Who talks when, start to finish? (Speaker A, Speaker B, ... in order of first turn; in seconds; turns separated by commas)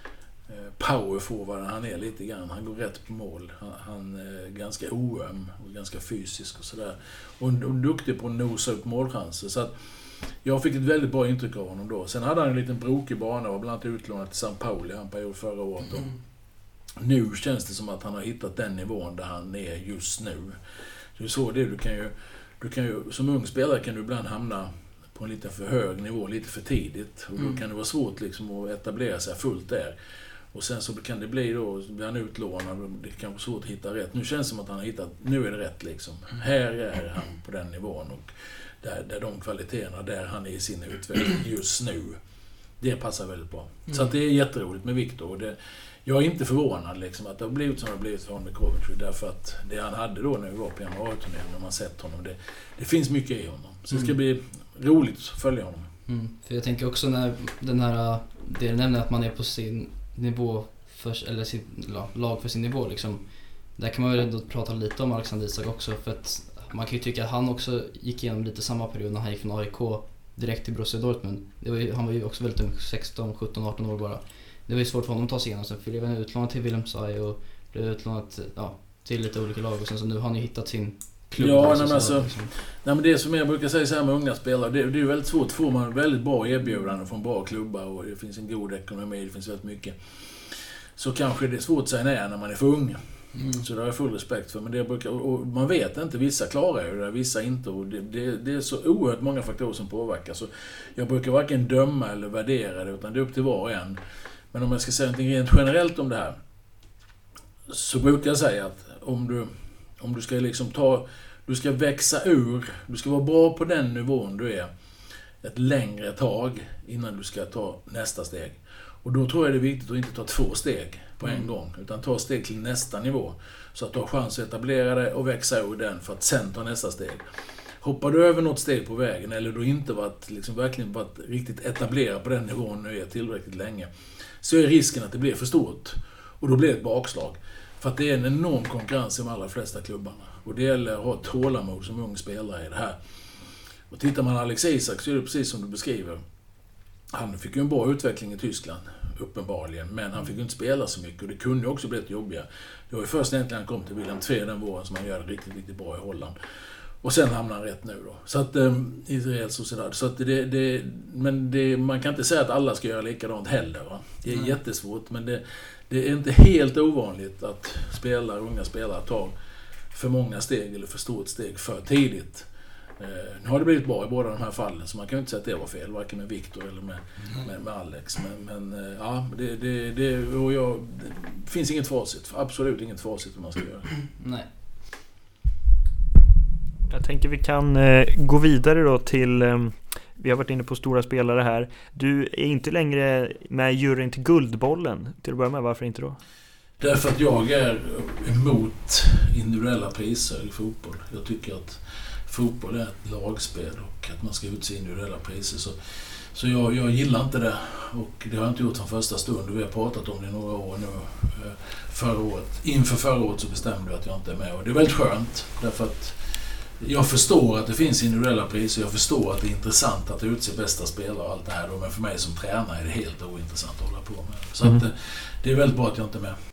Speaker A: 0.5-20.6, Speaker A: 21.1-29.9, Speaker A: 30.5-42.2, Speaker A: 42.8-55.9, Speaker B: 43.9-44.1, Speaker B: 56.1-82.5, Speaker A: 81.4-104.0, Speaker B: 93.3-93.7, Speaker A: 104.5-106.4, Speaker A: 107.7-114.7, Speaker A: 115.4-143.0, Speaker B: 121.2-121.5, Speaker A: 143.9-146.2, Speaker A: 147.1-156.4, Speaker A: 157.0-169.3, Speaker B: 164.3-164.6, Speaker A: 169.9-183.9, Speaker B: 184.2-184.5, Speaker C: 186.9-196.2, Speaker A: 196.8-226.4